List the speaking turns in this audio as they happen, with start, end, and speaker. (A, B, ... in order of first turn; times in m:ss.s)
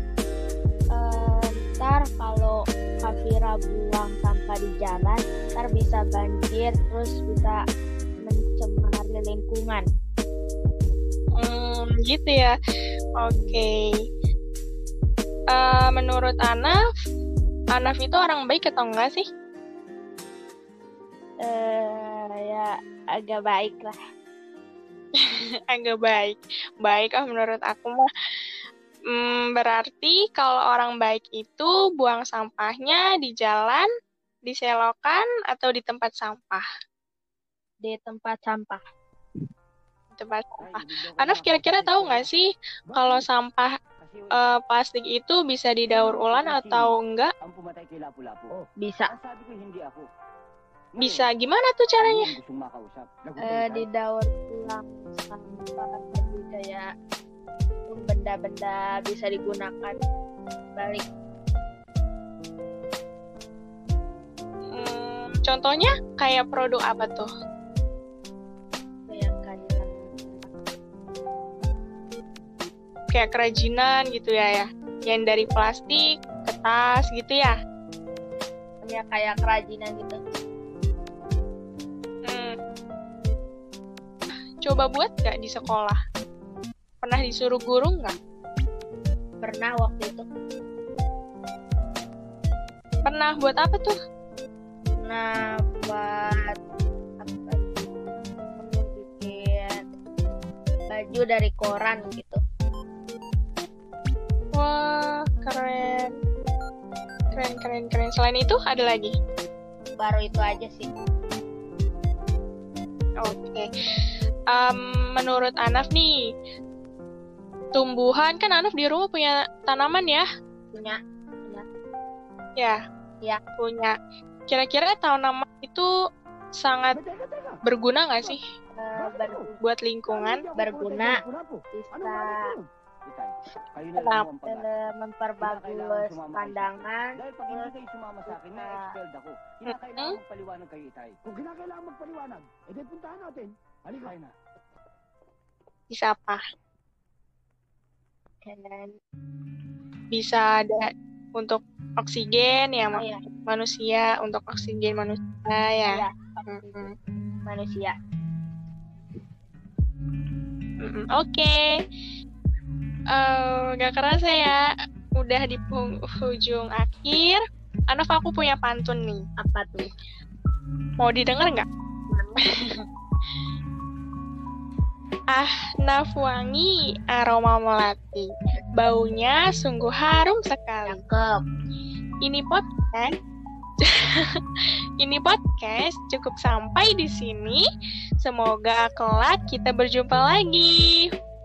0:00.9-0:07.6 A
0:08.2-0:09.8 A
0:11.4-0:12.6 B
0:13.2-0:13.8 B
0:15.5-0:16.8 B
0:17.7-0:19.3 B
0:21.4-0:24.0 A
0:25.2-0:28.1 B
0:29.1-0:33.9 B
0:34.5-0:36.6 B
0:37.8-0:38.8 A
0:40.2-0:43.7 B
0:40.6-0:42.3 C
0:44.0-0:44.3 C
0:44.3-0:47.3 B
0:45.9-0:50.1 C
0:48.8-0:49.1 A
0:51.0-0:51.3 C
0:51.0-0:52.3 B
0:52.0-0:53.8 C
0:53.4-0:56.9 A
0:57.9-1:00.0 A
1:00.8-1:01.0 A
1:04.7-1:07.3 B
1:09.1-1:10.5 A
1:13.1-1:17.6 B
1:18.8-1:20.2 A
1:22.2-1:22.6 B
1:24.6-1:26.0 B
1:27.0-1:28.2 B
1:29.4-1:30.2 A
1:33.0-1:34.0 B
1:34.9-1:36.6 A
1:37.2-1:37.8 A
1:38.5-1:39.8 A
1:40.9-1:42.4 A
1:44.5-1:46.1 B
1:47.3-1:49.1 B
1:50.0-1:50.9 A
1:53.2-1:53.7 B
1:54.5-1:56.1 B
1:57.7-2:00.3 B
2:00.7-2:01.6 A
2:03.6-2:04.0 B
2:04.5-2:05.9 B
2:06.6-2:07.0 B
2:07.0-2:07.6 C
2:07.6-2:08.4 B
2:08.8-2:09.6 A
2:09.0-2:09.3 C
2:09.6-2:10.5 B
2:10.1-2:14.7 C
2:10.6-2:11.2 A
2:11.8-2:12.6 A
2:14.0-2:14.3 B
2:14.5-2:17.7 A
2:15.4-2:24.3 C
2:18.3-2:19.0 A
2:19.7-2:20.2 B
2:25.9-2:26.4 B
2:28.4-2:28.9 A
2:30.1-2:36.9 B
2:35.9-2:36.9 A
2:37.5-2:37.9 A
2:40.8-2:41.6 B
2:43.1-2:44.6 B
2:45.2-2:49.2 B
2:49.4-2:49.9 A
2:51.0-2:51.7 B
2:52.1-2:52.4 A
2:55.3-3:01.0 B
3:00.9-3:01.4 A
3:02.2-3:03.1 B
3:03.8-3:04.4 B
3:05.0-3:07.6 B
3:08.2-3:11.0 B